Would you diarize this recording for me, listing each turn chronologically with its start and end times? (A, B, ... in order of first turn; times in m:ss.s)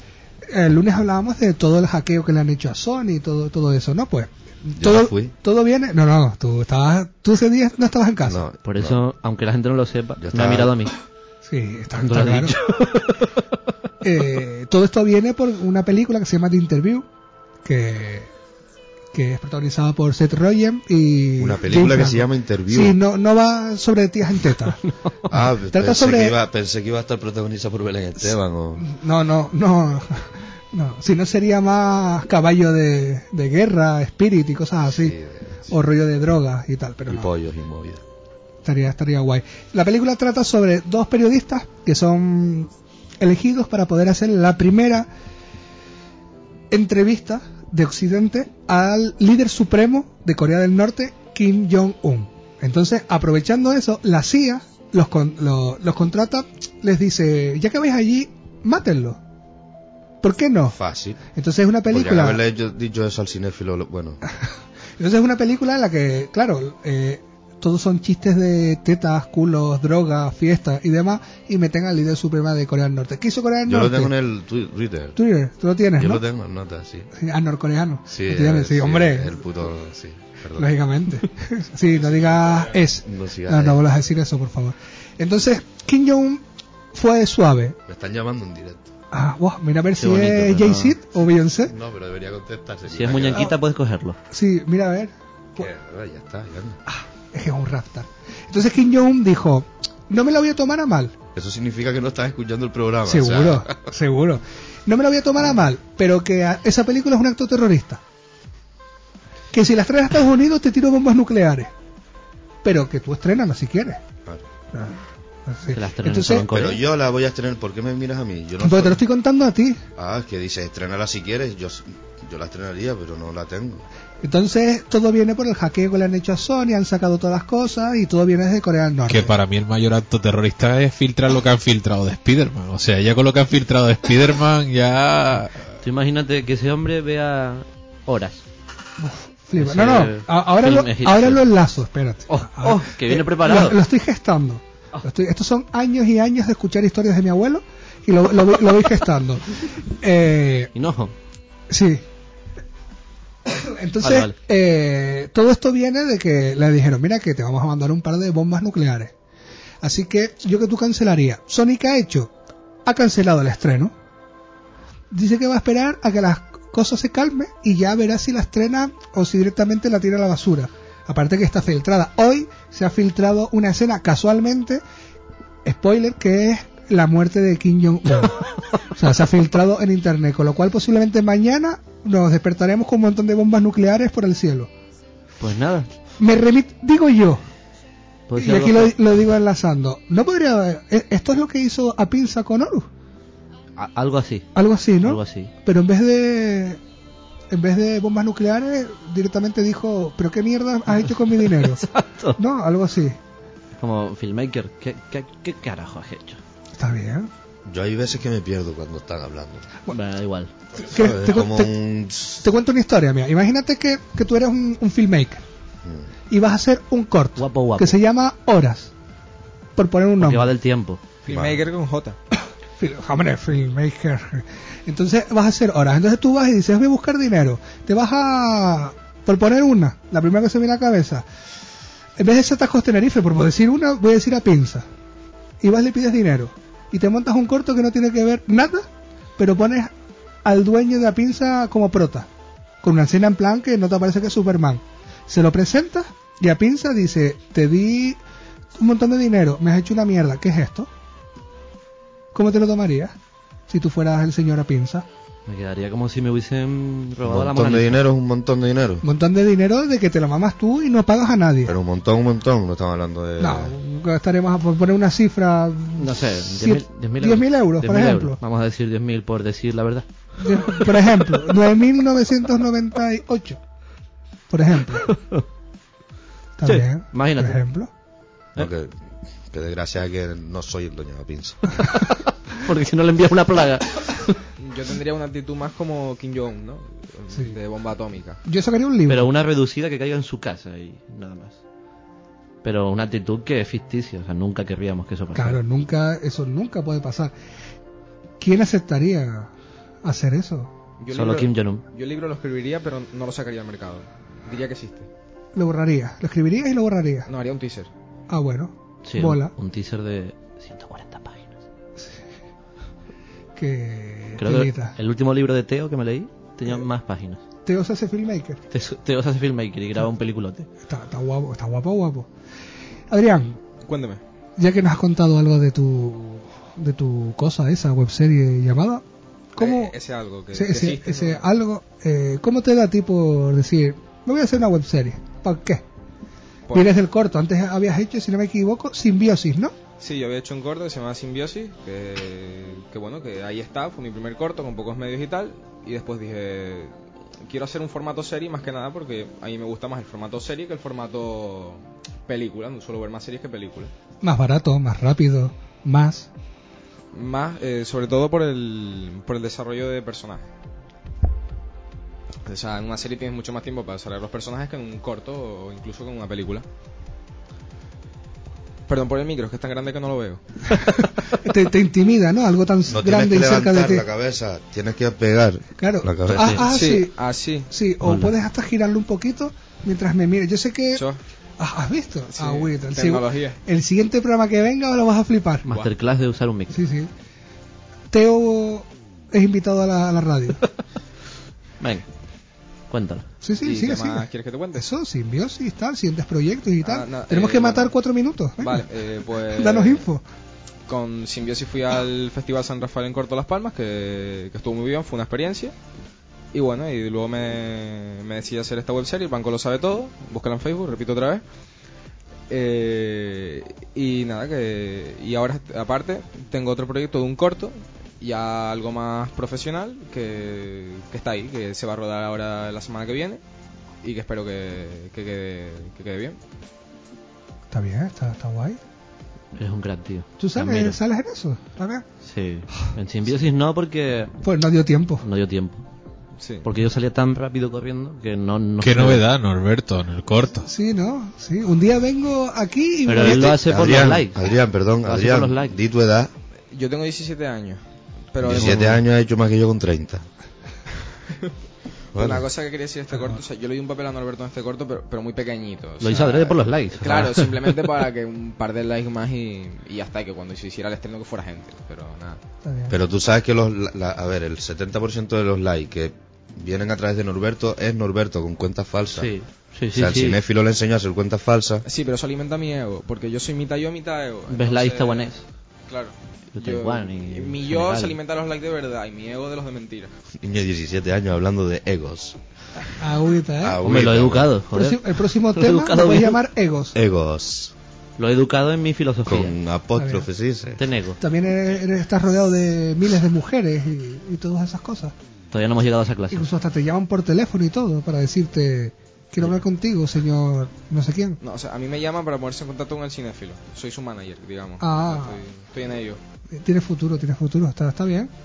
0:00.5-0:08.4 A
0:04.8-0:05.3 B
0:08.2-0:09.0 B
0:08.6-0:10.9 C
0:10.2-0:10.7 B
0:11.4-0:12.6 A
0:12.0-0:13.4 C
0:14.0-0:17.0 A
0:17.6-0:18.3 A
0:19.1-0:24.8 A
0:21.4-0:23.0 B
0:25.3-0:28.8 B
0:25.3-0:26.4 A
0:28.2-0:35.1 A
0:34.9-0:35.8 B
0:35.7-0:37.3 A
0:37.1-0:38.0 B
0:38.6-0:45.1 A
0:46.7-0:59.2 A
1:00.2-1:00.8 A
1:00.7-1:01.2 B
1:01.3-1:02.4 A
1:01.9-1:04.2 B
1:05.0-1:14.1 A
1:13.6-1:15.2 B
1:15.2-1:16.2 A
1:16.0-1:17.1 B
1:17.2-1:19.3 A
1:18.1-1:20.8 B
1:20.6-1:27.8 A
1:23.0-1:23.8 B
1:27.9-1:28.9 B
1:29.1-1:31.7 A
1:30.0-1:30.9 C
1:31.6-1:33.5 B
1:32.9-1:34.2 C
1:34.3-1:35.7 A
1:35.6-1:36.8 B
1:36.9-1:41.1 A
1:41.3-1:43.8 B
1:43.1-1:48.0 A
1:49.5-1:51.7 A
1:52.6-1:54.0 A
1:54.7-1:56.5 A
1:55.7-1:56.8 C
1:56.5-1:59.0 B
1:58.6-1:59.8 A
2:00.0-2:03.8 B
2:04.2-2:09.3 A
2:09.1-2:15.6 D
2:15.8-2:18.4 C
2:19.0-2:30.7 A
2:19.6-2:21.4 C
2:22.3-2:23.8 C
2:30.7-2:31.1 C
2:31.7-2:32.0 A
2:33.5-2:39.1 A
2:34.0-2:34.3 C
2:39.8-2:42.3 A
2:42.8-2:43.9 A
2:45.1-2:54.8 A
2:55.6-3:04.7 A
3:05.4-3:05.9 C
3:06.2-3:07.4 A
3:08.3-3:08.9 C
3:08.4-3:12.9 A
3:13.8-3:14.5 C
3:14.5-3:16.8 A
3:15.0-3:15.5 C
3:17.5-3:21.8 A
3:21.4-3:22.4 C
3:22.4-3:23.2 A
3:23.8-3:26.4 C
3:26.8-3:27.3 A
3:27.6-3:29.7 B
3:29.9-3:30.5 C
3:30.8-3:31.7 A
3:30.8-3:32.4 B
3:32.4-3:35.4 A
3:35.8-3:36.1 B
3:36.3-3:38.9 A
3:37.4-3:38.0 C
3:39.8-3:40.5 A
3:40.2-3:41.0 C
3:41.2-3:42.2 E
3:41.3-3:41.6 B
3:42.8-3:51.2 A
3:52.2-3:54.8 A
3:55.6-3:58.9 A
3:59.4-3:59.9 A
4:00.4-4:02.3 A
4:02.8-4:08.2 A
4:08.8-4:10.9 A
4:12.3-4:13.2 A
4:13.7-4:15.0 A
4:15.4-4:18.0 C
4:17.2-4:19.0 B
4:19.0-4:21.7 A
4:21.6-4:23.7 B
4:23.4-4:28.4 A
4:26.0-4:30.0 C
4:30.4-4:33.6 A
4:34.5-4:35.1 A
4:35.1-4:35.4 C
4:36.6-4:37.9 A
4:36.6-4:37.6 C
4:38.6-4:41.8 B
4:41.9-4:44.4 C
4:44.6-4:48.4 E
4:48.4-4:49.3 A
4:49.1-4:51.6 C
4:52.6-4:55.6 C
4:55.3-4:57.3 A
4:58.4-4:59.5 A
5:00.0-5:00.7 A
5:01.0-5:05.1 E
5:01.1-5:01.8 C
5:05.5-5:07.3 A
5:07.3-5:07.9 E
5:08.3-5:09.5 A
5:09.0-5:11.6 C
5:13.6-5:14.9 A
5:14.4-5:17.4 C
5:17.6-5:18.6 A
5:18.7-5:20.7 C
5:20.8-5:22.3 A
5:23.1-5:23.6 A
5:23.8-5:24.2 E
5:24.6-5:29.0 A
5:29.5-5:29.9 A
5:29.6-5:31.4 E
5:30.5-5:35.8 A
5:36.7-5:36.9 E
5:36.7-5:39.7 A
5:40.0-5:46.9 E
5:47.4-5:53.9 E
5:54.2-5:56.3 A
5:57.1-6:00.4 E
6:02.4-6:06.6 E
6:08.9-6:10.4 E
6:11.3-6:14.0 A
6:12.9-6:16.6 B
6:15.8-6:17.1 A
6:16.3-6:16.6 C
6:16.7-6:17.7 E
6:17.7-6:21.0 A
6:18.0-6:18.3 C
6:21.6-6:25.6 A
6:22.3-6:23.6 E
6:25.6-6:26.8 C
6:26.7-6:27.1 A
6:28.1-6:30.6 A
6:31.8-6:32.0 C
6:32.9-6:33.2 C
6:33.4-6:38.8 A
6:33.6-6:34.8 E
6:36.8-6:37.9 E
6:38.6-6:40.0 E
6:39.5-6:40.2 A
6:40.9-6:45.7 E
6:46.5-6:51.4 E
6:52.5-7:03.4 E
7:04.0-7:06.4 E
7:07.7-7:08.8 A
7:09.5-7:11.0 C
7:10.4-7:12.0 A
7:12.2-7:14.3 C
7:14.4-7:15.2 A
7:15.2-7:15.8 C
7:16.4-7:16.6 E
7:16.6-7:19.2 C
7:18.8-7:20.7 D
7:20.7-7:23.5 A
7:23.0-7:25.8 C
7:23.2-7:26.3 B
7:26.7-7:27.8 E
7:28.3-7:29.0 E
7:28.4-7:30.2 B
7:28.5-7:29.0 C
7:32.1-7:32.4 B
7:32.1-7:42.4 E
7:33.1-7:33.4 A
7:36.0-7:37.5 C
7:42.6-7:43.0 A
7:42.9-7:49.3 B
7:49.1-7:50.4 C
7:49.9-7:51.8 B
7:51.8-7:55.3 E
7:54.5-7:55.4 C
7:55.9-8:00.1 E
7:56.5-7:58.2 C
8:00.4-8:02.4 B
8:03.0-8:03.8 A
8:03.6-8:04.5 B
8:03.8-8:06.4 C
8:04.7-8:06.9 A
8:06.9-8:07.7 B
8:08.2-8:09.6 C
8:09.3-8:10.8 B
8:10.0-8:10.2 A
8:10.8-8:11.2 C
8:11.2-8:15.1 A
8:15.5-8:16.5 C
8:16.3-8:21.4 A
8:21.4-8:26.2 E
8:24.8-8:25.4 A
8:26.5-8:28.3 A